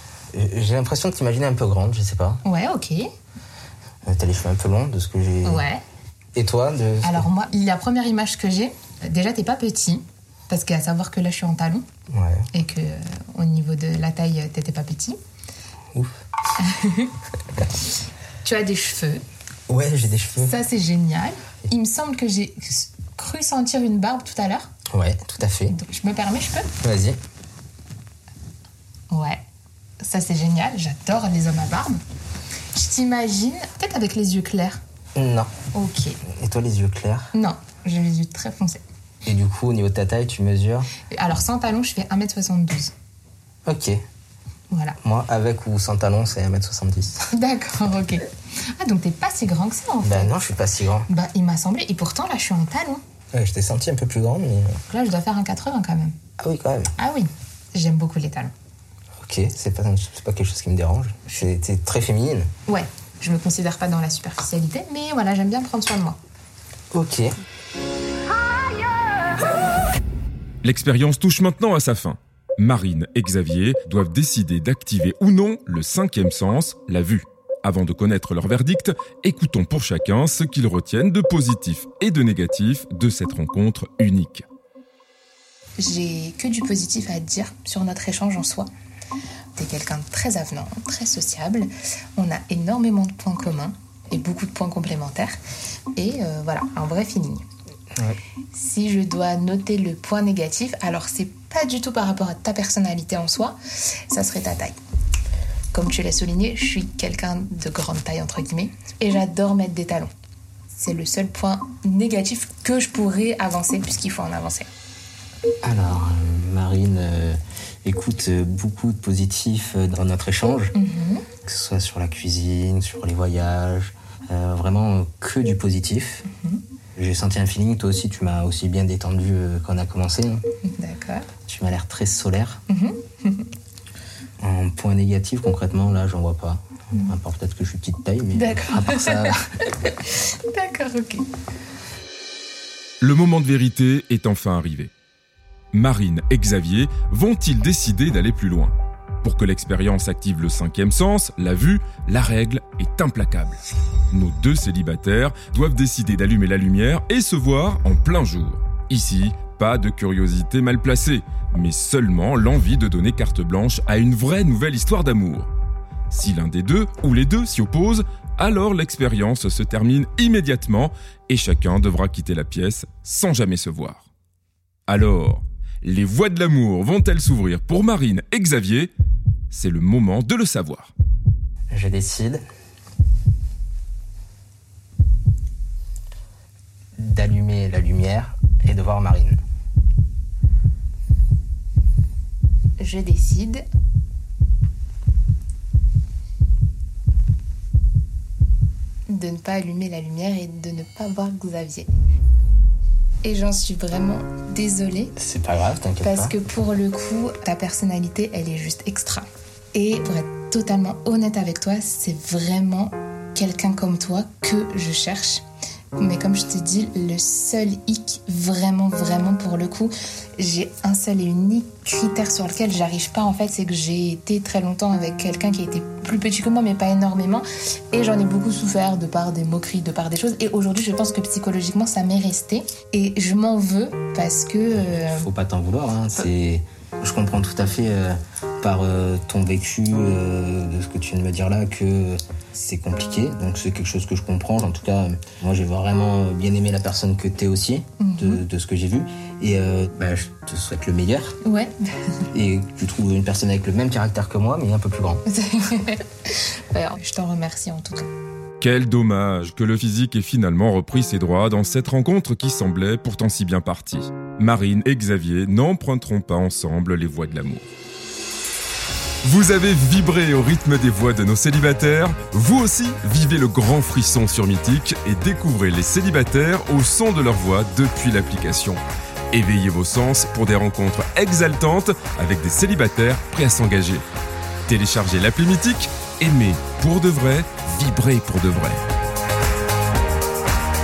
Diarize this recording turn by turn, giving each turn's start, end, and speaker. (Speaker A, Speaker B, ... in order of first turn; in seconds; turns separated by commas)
Speaker A: 0.3-2.4, Speaker B: 2.4-3.1, Speaker A: 4.0-5.6, Speaker B: 5.4-5.8, Speaker A: 6.3-7.2, Speaker B: 7.0-11.8, Speaker A: 12.1-12.5, Speaker B: 12.5-15.2, Speaker B: 16.6-17.1, Speaker B: 18.4-19.2, Speaker A: 19.7-20.5, Speaker B: 20.4-24.7, Speaker A: 24.9-25.7, Speaker B: 25.7-26.7, Speaker A: 26.8-27.2, Speaker B: 29.1-29.4, Speaker B: 30.0-32.0, Speaker B: 32.7-34.8, Speaker A: 35.1-35.5, Speaker B: 35.7-36.2, Speaker A: 36.4-37.3, Speaker B: 37.3-38.8, Speaker A: 39.2-40.9, Speaker B: 41.1-42.9, Speaker A: 43.6-44.0, Speaker B: 44.7-45.0, Speaker A: 45.0-47.2, Speaker B: 47.3-50.4, Speaker A: 50.0-51.1, Speaker B: 51.1-53.0, Speaker A: 53.3-54.8, Speaker B: 54.9-56.2, Speaker A: 56.4-56.9, Speaker B: 57.0-58.5, Speaker A: 59.2-62.5, Speaker B: 62.7-66.2, Speaker A: 66.9-67.3, Speaker C: 70.6-84.4, Speaker B: 85.8-88.7, Speaker B: 89.5-95.3, Speaker B: 95.9-97.4, Speaker B: 98.5-103.6, Speaker B: 104.1-104.8, Speaker B: 105.7-110.1, Speaker B: 110.7-114.7, Speaker A: 115.6-120.7, Speaker B: 120.7-121.3, Speaker A: 121.4-126.2, Speaker B: 126.3-126.6, Speaker A: 127.0-130.4, Speaker B: 130.7-131.3, Speaker A: 131.4-132.6, Speaker B: 132.7-133.5, Speaker A: 134.4-139.4, Speaker B: 138.3-141.2, Speaker C: 143.0-144.9, Speaker C: 145.7-153.6, Speaker C: 154.1-165.5, Speaker C: 166.1-174.1, Speaker C: 174.9-178.9, Speaker C: 179.5-180.9, Speaker A: 181.7-182.4, Speaker A: 187.0-189.4, Speaker B: 192.8-193.6, Speaker B: 199.1-201.9, Speaker B: 203.2-205.1, Speaker A: 205.2-206.3, Speaker B: 206.0-215.4, Speaker B: 215.9-235.3, Speaker A: 234.7-251.4, Speaker B: 248.0-248.4, Speaker B: 251.4-251.7, Speaker A: 252.3-255.2, Speaker B: 255.3-258.1, Speaker C: 258.6-267.7, Speaker C: 269.2-284.0, Speaker C: 284.7-288.9